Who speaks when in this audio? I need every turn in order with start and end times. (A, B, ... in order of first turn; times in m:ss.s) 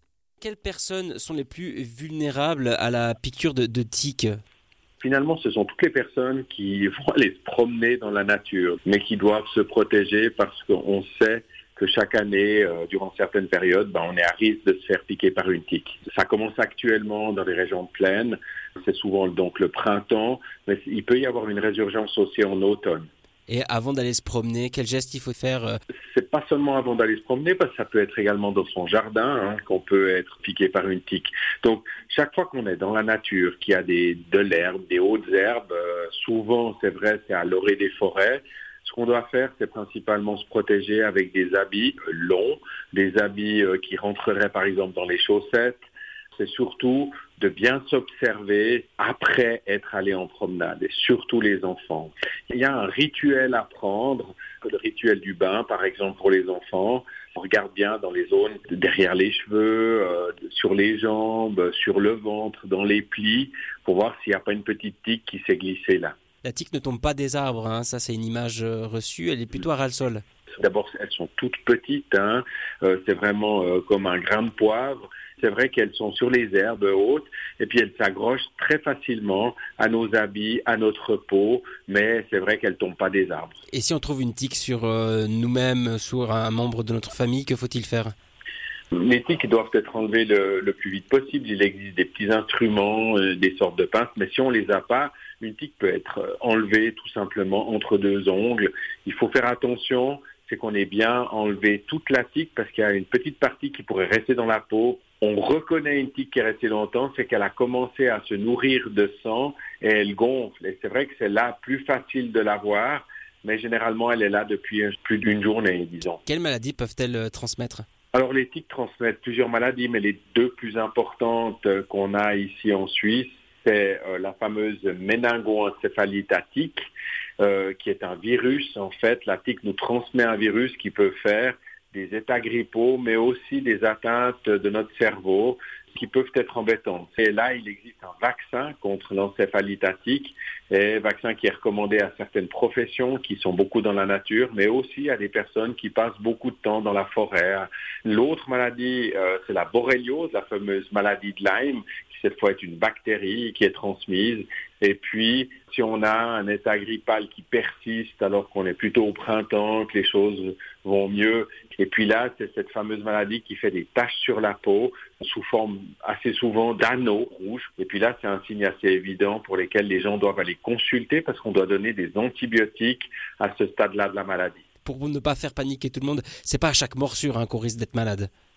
0:00.4-0:04.4 A
0:05.0-0:23.1 B
0:23.5-0:25.8 A
0:26.1-0:45.8 B
0:46.4-1:06.2 B
1:06.4-1:10.2 A
1:10.6-1:23.6 B
1:23.7-1:28.1 A
1:28.9-1:56.2 B
1:56.2-1:57.8 A
1:58.1-2:06.9 B
2:07.4-2:54.6 B
2:54.8-2:58.3 A